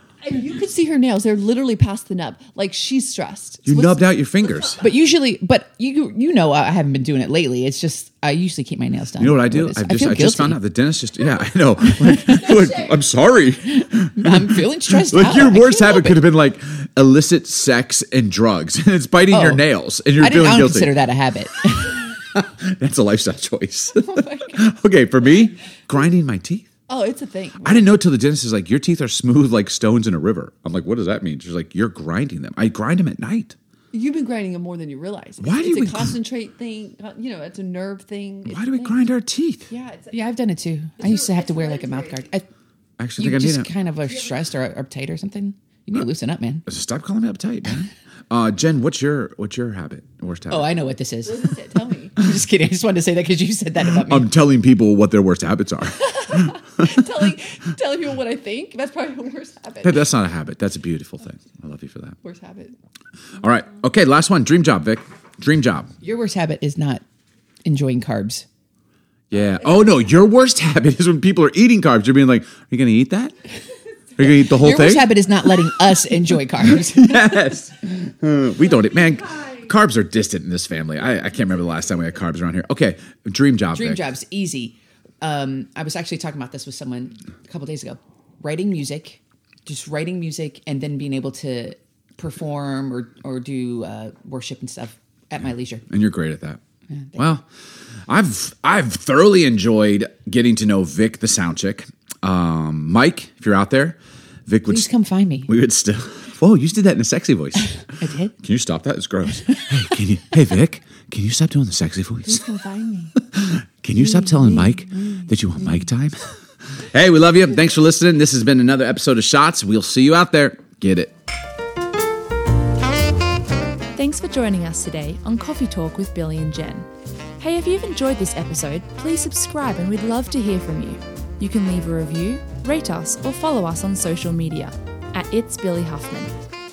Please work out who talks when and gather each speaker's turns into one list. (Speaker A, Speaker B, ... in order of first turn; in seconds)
Speaker A: 0.2-4.9, 26.9-27.9, 33.9-39.1, 39.7-40.4, 41.0-42.3, 51.2-52.1, 56.0-60.1, 62.2-62.8, 112.3-113.1, 114.4-114.8
Speaker B: 3.6-4.8, 9.2-21.0, 22.2-26.7, 27.6-33.6, 35.4-36.2, 38.5-39.7, 43.0-43.7, 46.7-50.7, 54.0-56.3, 59.8-62.2, 63.4-65.9, 69.3-73.3, 74.2-75.1, 76.6-84.1, 95.9-96.6, 97.2-97.4, 98.1-104.9, 105.5-107.8, 108.4-112.4, 113.3-116.2, 116.9-121.1
Speaker C: 4.8-10.6, 11.9-12.6, 14.2-16.2, 19.3-19.6, 20.2-22.0, 40.1-42.5, 43.2-46.6, 50.5-51.5, 52.2-54.3, 66.0-67.0, 67.7-68.5, 74.2-77.2, 83.7-95.8, 96.9-97.2, 104.7-105.5, 107.9-108.3
Speaker D: 123.9-136.4